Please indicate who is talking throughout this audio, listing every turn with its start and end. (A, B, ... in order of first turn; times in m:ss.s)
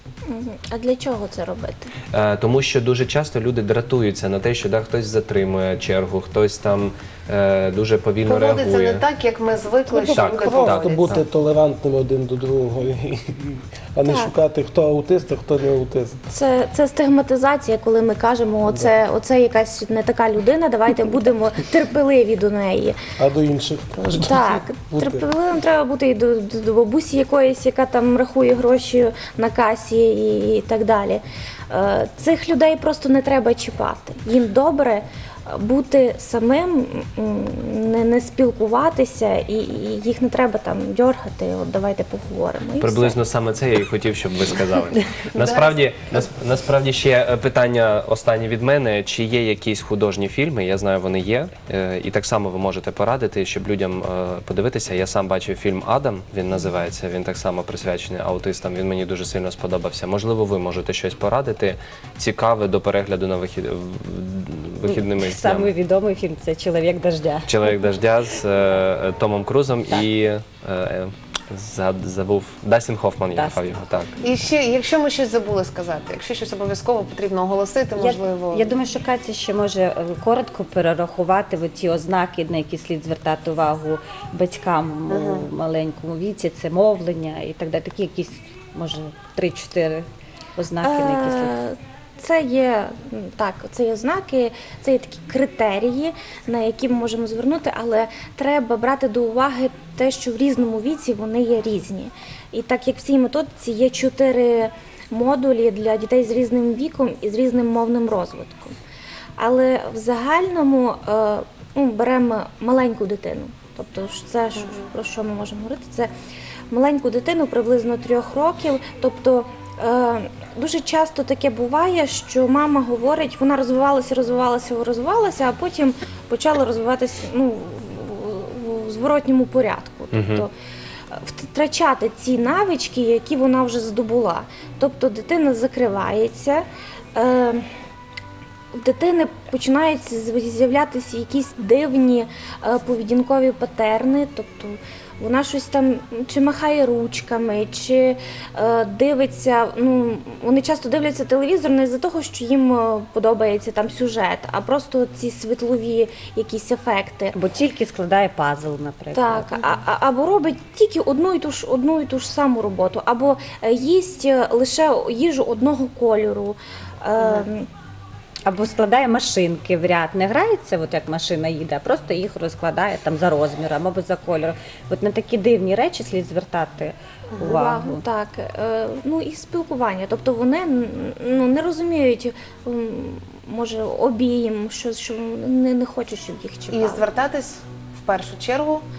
0:00.3-0:01.9 A
0:02.1-0:09.0 B
0:08.2-0:11.2 C
0:10.1-0:11.1 B
0:10.2-0:16.2 D
0:14.1-0:14.3 A
0:16.3-0:23.0 A
0:23.2-0:25.3 D
0:24.1-0:43.2 A
0:42.8-1:05.7 B
0:45.2-0:45.7 C
1:04.8-1:07.8 E
1:07.5-1:14.2 B
1:13.3-1:14.0 E
1:14.2-1:18.7 C
1:18.0-1:31.6 E
1:25.1-1:25.5 C
1:30.8-1:48.8 A
1:49.4-1:56.1 A
1:56.7-2:10.5 A
2:10.1-2:10.5 B
2:11.1-2:16.6 A
2:17.2-2:17.7 A
2:18.7-2:37.3 A
2:37.3-2:39.7 E
2:39.1-2:47.7 A
2:47.2-2:47.5 C
2:48.5-2:58.0 E
2:57.4-3:07.1 A
3:06.7-3:08.8 C